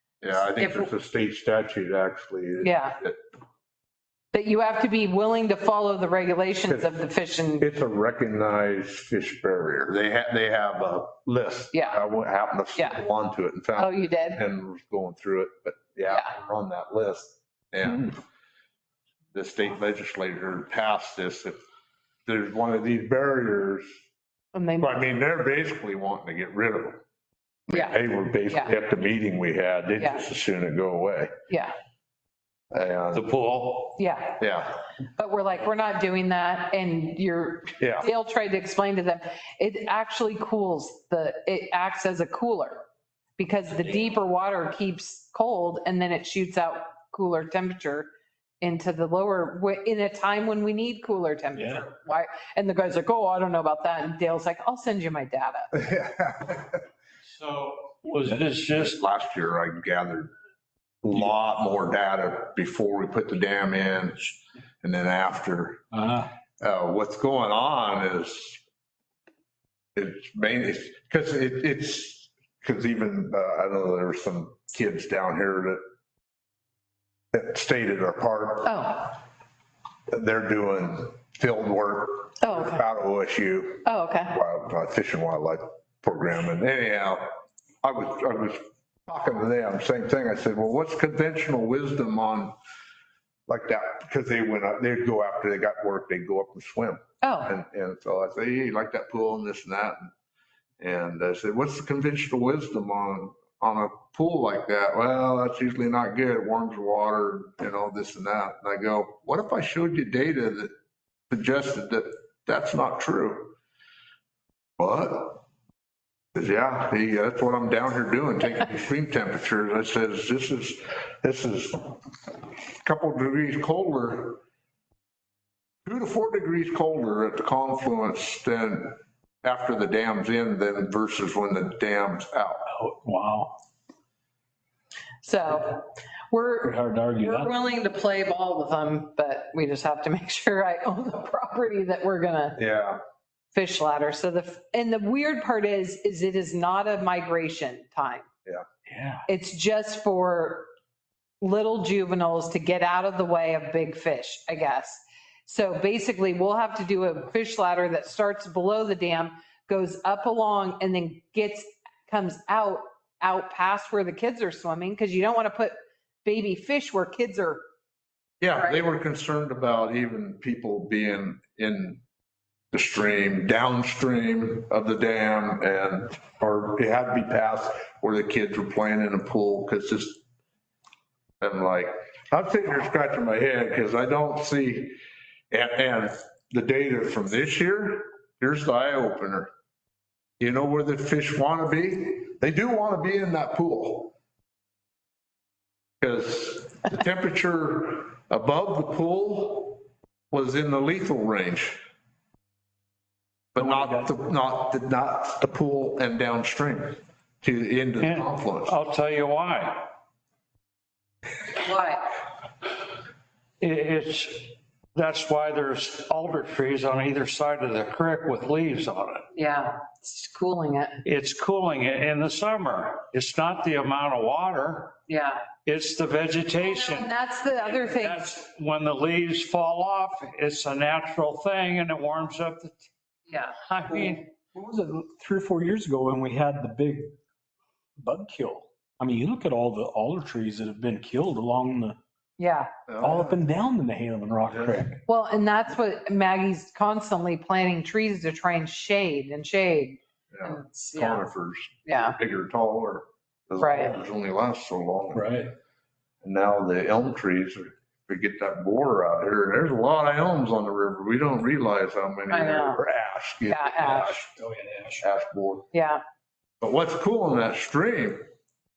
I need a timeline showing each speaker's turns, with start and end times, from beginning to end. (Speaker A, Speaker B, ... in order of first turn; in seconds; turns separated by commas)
Speaker A: 0.2-3.2, Speaker B: 0.3-0.9, Speaker B: 2.6-3.0, Speaker B: 4.3-7.7, Speaker A: 6.7-6.9, Speaker A: 7.6-18.2, Speaker B: 11.7-12.0, Speaker B: 12.8-13.0, Speaker B: 13.8-14.4, Speaker B: 16.1-16.3, Speaker A: 19.3-21.6, Speaker A: 22.2-23.9, Speaker B: 24.5-25.1, Speaker A: 24.8-27.0, Speaker A: 27.7-31.3, Speaker B: 27.7-28.0, Speaker B: 31.5-31.7, Speaker A: 32.7-33.3, Speaker C: 33.1-34.0, Speaker B: 34.0-34.4, Speaker A: 34.4-34.8, Speaker B: 35.1-42.8, Speaker A: 37.8-38.1, Speaker B: 43.4-48.1, Speaker B: 48.6-55.7, Speaker D: 51.5-51.8, Speaker A: 55.7-56.8, Speaker C: 57.3-59.0, Speaker A: 58.7-60.3, Speaker A: 61.0-65.8, Speaker D: 65.9-66.3, Speaker A: 66.6-68.6, Speaker A: 69.9-75.8, Speaker A: 77.3-78.8, Speaker B: 78.6-79.2, Speaker A: 80.1-87.3, Speaker B: 82.4-82.8, Speaker B: 83.8-84.4, Speaker A: 87.8-92.5, Speaker A: 93.5-100.1, Speaker B: 97.2-97.5, Speaker A: 100.8-110.7, Speaker A: 111.3-113.5, Speaker A: 114.8-115.4, Speaker A: 116.3-122.0, Speaker A: 122.8-124.4, Speaker A: 125.8-132.6, Speaker D: 132.7-133.6, Speaker B: 135.2-142.6, Speaker D: 136.6-137.5, Speaker A: 142.6-143.0, Speaker B: 143.5-148.3, Speaker D: 148.9-149.2, Speaker B: 149.3-150.7, Speaker B: 151.4-167.6, Speaker A: 168.4-172.0, Speaker B: 168.6-168.8, Speaker A: 172.7-180.2, Speaker A: 181.4-185.0, Speaker A: 185.5-189.5, Speaker A: 190.4-194.1, Speaker A: 196.0-201.8, Speaker A: 203.5-208.8, Speaker C: 208.0-209.9, Speaker B: 211.5-212.1, Speaker C: 213.6-219.3, Speaker B: 219.3-221.0, Speaker C: 221.0-225.0, Speaker B: 225.1-225.4, Speaker C: 225.6-232.8, Speaker B: 226.6-228.3, Speaker B: 233.3-233.7, Speaker C: 233.6-234.2, Speaker D: 233.9-237.1, Speaker D: 238.0-242.0, Speaker B: 242.4-242.7, Speaker A: 242.9-243.4, Speaker D: 243.0-245.0, Speaker A: 244.5-244.8, Speaker B: 245.1-251.2, Speaker A: 250.3-255.3, Speaker B: 251.8-252.2, Speaker B: 253.6-253.9, Speaker D: 255.1-255.5, Speaker A: 256.2-264.3, Speaker B: 262.3-262.8, Speaker B: 263.5-264.2, Speaker D: 263.8-265.0, Speaker A: 265.0-265.7, Speaker B: 265.7-266.0, Speaker A: 266.6-268.2